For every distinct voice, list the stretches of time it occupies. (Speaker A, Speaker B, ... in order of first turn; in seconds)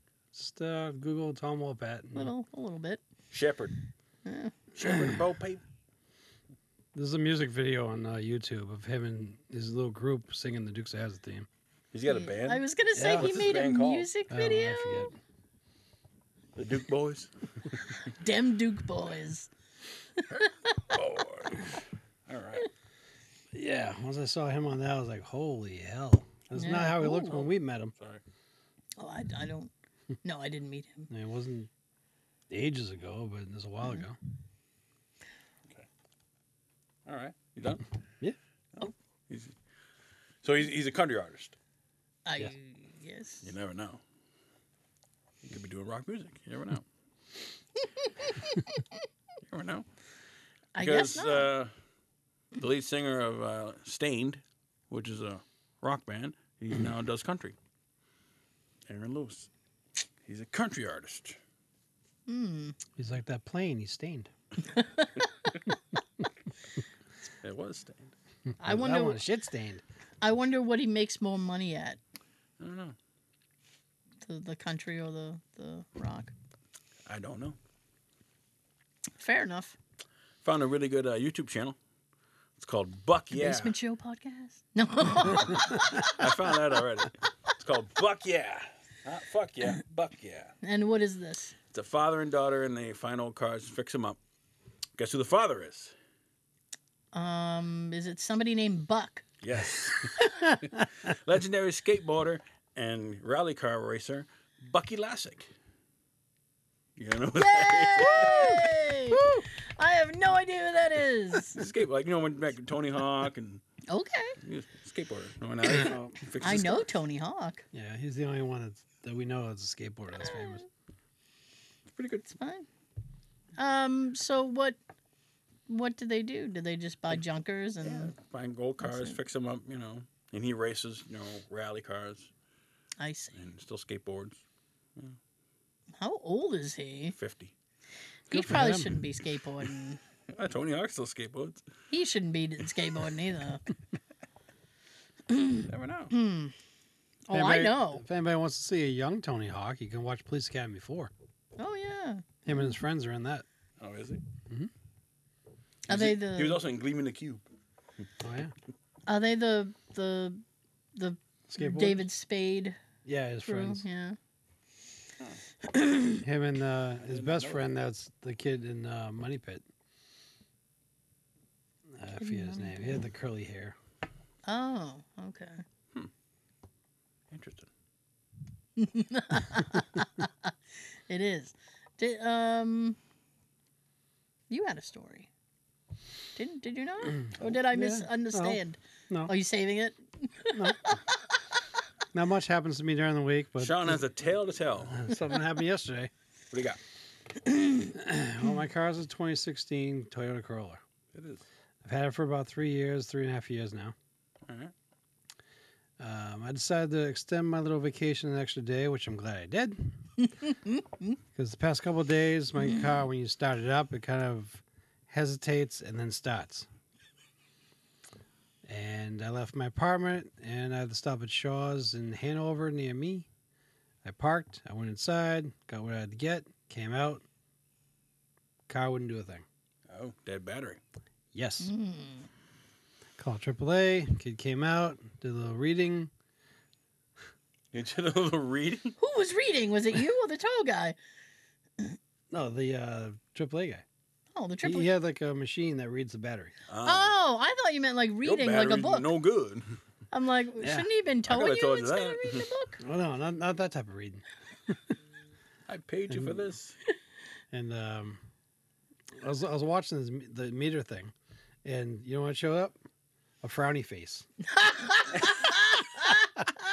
Speaker A: 0.3-2.3, 6.9-11.5, 12.9-13.5, 14.3-15.1, 23.5-27.9, 31.1-31.7, 32.5-34.2, 63.0-64.3, 68.6-69.8, 109.1-109.5, 115.8-116.2, 117.7-120.6, 138.3-139.0, 147.3-151.1, 152.5-153.4, 158.2-158.5, 161.5-162.0, 163.1-163.8, 166.2-169.6, 171.9-173.8, 187.7-189.3, 190.5-190.9, 192.1-194.0, 194.9-196.1, 197.9-200.8, 201.8-203.9, 206.0-210.0, 211.3-216.7, 218.7-223.3, 224.0-227.2, 228.7-229.4, 231.3-231.7, 233.2-236.1, 242.3-243.8, 244.6-246.5, 250.6-250.9, 252.8-254.9, 256.1-256.5, 257.5-258.2, 259.2-261.1, 261.6-262.8, 263.4-264.3
Speaker B: 2.1-3.0, 4.3-4.6, 12.1-15.1, 18.1-19.5, 20.2-20.5, 26.6-27.5, 29.0-29.7, 30.2-31.1, 42.3-43.5, 48.2-48.6, 50.8-51.5, 62.3-62.8, 64.7-65.2, 68.6-69.2, 70.2-72.0, 74.2-76.3, 79.2-79.8, 83.3-86.3, 90.6-91.5, 97.1-99.2, 107.3-111.6, 113.9-114.4, 116.4-117.7, 120.2-120.7, 122.3-122.7, 123.6-124.8, 125.7-128.1, 128.8-129.2, 133.0-133.5, 136.0-137.2, 138.3-140.0, 141.9-143.6, 145.3-146.5, 147.3-148.0, 151.6-152.7, 155.9-156.6, 159.1-160.4, 161.0-162.8, 163.5-164.2, 165.7-166.2, 172.2-172.8, 174.4-175.6, 178.8-180.5, 181.1-183.0, 184.5-185.3, 186.4-191.3, 197.5-197.8, 212.6-212.9, 231.6-232.3, 239.0-241.0, 244.3-244.9, 246.8-249.1, 250.1-252.8, 264.4-266.3
Speaker C: 3.3-3.7, 4.8-5.6, 11.9-14.1, 16.6-17.8, 20.3-22.7, 28.0-28.2, 37.1-37.8, 39.3-39.6, 40.4-41.5, 43.4-44.0, 45.4-46.9, 49.5-49.9, 50.8-51.7, 52.6-57.5, 58.9-59.5, 60.2-61.4, 67.4-68.1, 72.6-73.0, 77.1-77.6, 80.4-81.8, 82.6-83.8, 85.9-90.5, 91.7-94.2, 95.0-95.9, 99.4-100.3, 101.0-105.5, 107.0-108.6, 111.5-113.6, 114.4-116.9, 121.9-122.3, 127.8-132.3, 133.4-134.4, 137.2-137.5, 140.3-141.6, 145.7-146.1, 153.8-154.2, 155.9-157.4, 167.1-167.6, 177.3-177.7, 193.6-195.1, 196.5-196.8, 201.1-201.4, 204.5-204.7, 229.9-230.8, 237.7-239.0, 246.7-247.1, 248.2-249.7, 251.3-252.5, 255.7-256.8